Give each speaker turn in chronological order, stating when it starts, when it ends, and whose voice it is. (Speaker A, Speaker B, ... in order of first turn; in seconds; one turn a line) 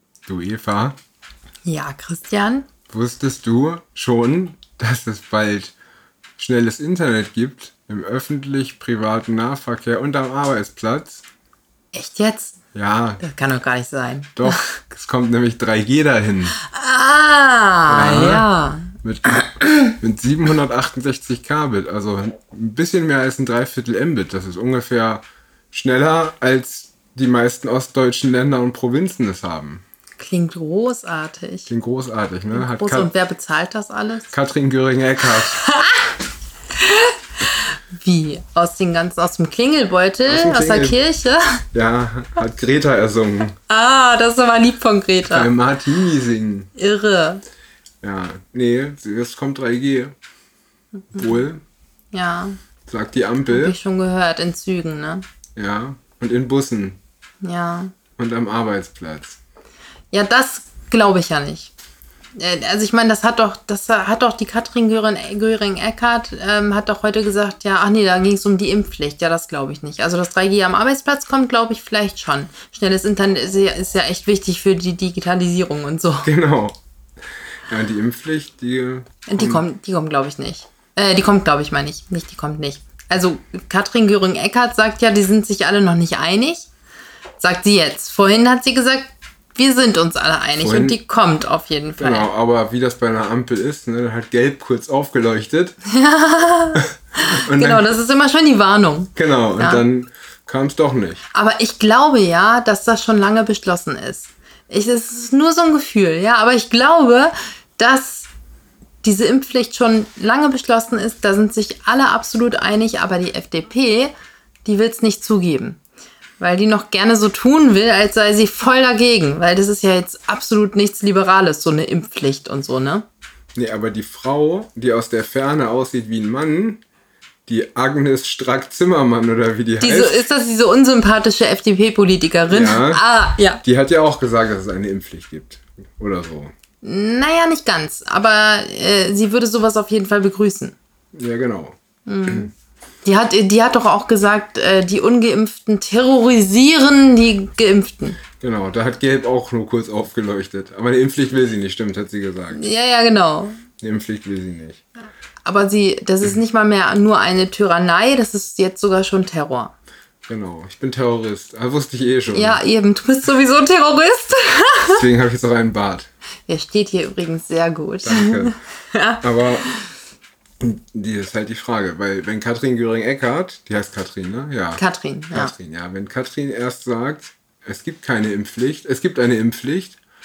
Speaker A: 0.3-1.0
Speaker B: 1.6-2.7
Speaker A: 2.9-5.7
Speaker A: 6.4-11.2
Speaker B: 11.9-12.6
Speaker A: 12.7-13.2
Speaker B: 13.2-14.8
Speaker A: 14.4-16.6
Speaker B: 16.6-18.9
Speaker A: 17.9-18.5
Speaker A: 19.0-29.8
Speaker B: 19.6-19.9
Speaker B: 30.2-31.7
Speaker A: 31.7-33.1
Speaker B: 32.5-34.3
Speaker A: 34.3-35.6
Speaker B: 35.4-36.1
Speaker B: 36.8-41.6
Speaker A: 40.3-41.0
Speaker A: 41.7-43.6
Speaker B: 43.7-45.5
Speaker A: 45.3-46.7
Speaker B: 46.8-47.4
Speaker A: 48.0-50.1
Speaker B: 51.1-51.4
Speaker A: 51.1-51.6
Speaker B: 52.1-52.6
Speaker A: 52.9-53.8
Speaker B: 53.5-55.2
Speaker A: 55.6-57.0
Speaker B: 57.4-57.9
Speaker A: 58.2-59.4
Speaker B: 60.1-61.7
Speaker B: 62.4-76.3
Speaker A: 76.2-76.8
Speaker A: 77.7-79.7
Speaker B: 79.3-86.7
Speaker B: 87.4-92.3
Speaker A: 90.6-91.0
Speaker A: 92.0-95.8
Speaker B: 95.9-99.8
Speaker A: 97.2-97.9
Speaker A: 99.2-101.2
Speaker B: 101.3-108.3
Speaker B: 109.0-114.1
Speaker B: 114.7-115.8
Speaker B: 116.4-123.1
Speaker A: 123.5-126.8
Speaker A: 127.5-130.2
Speaker B: 129.8-133.6
Speaker A: 132.5-133.0
Speaker A: 133.6-136.5
Speaker B: 136.8-140.8
Speaker A: 141.1-142.5
Speaker B: 142.1-142.5
Speaker B: 143.1-148.2
Speaker A: 148.4-152.7
Speaker B: 152.5-153.6
Speaker A: 153.8-154.8
Speaker B: 155.4-159.7
Speaker A: 160.3-162.6
Speaker B: 162.3-165.0
Speaker A: 164.9-166.1
Speaker B: 166.5-169.9
Speaker A: 168.0-168.6
Speaker A: 169.2-169.7
Speaker A: 170.6-180.0
Speaker B: 174.8-175.5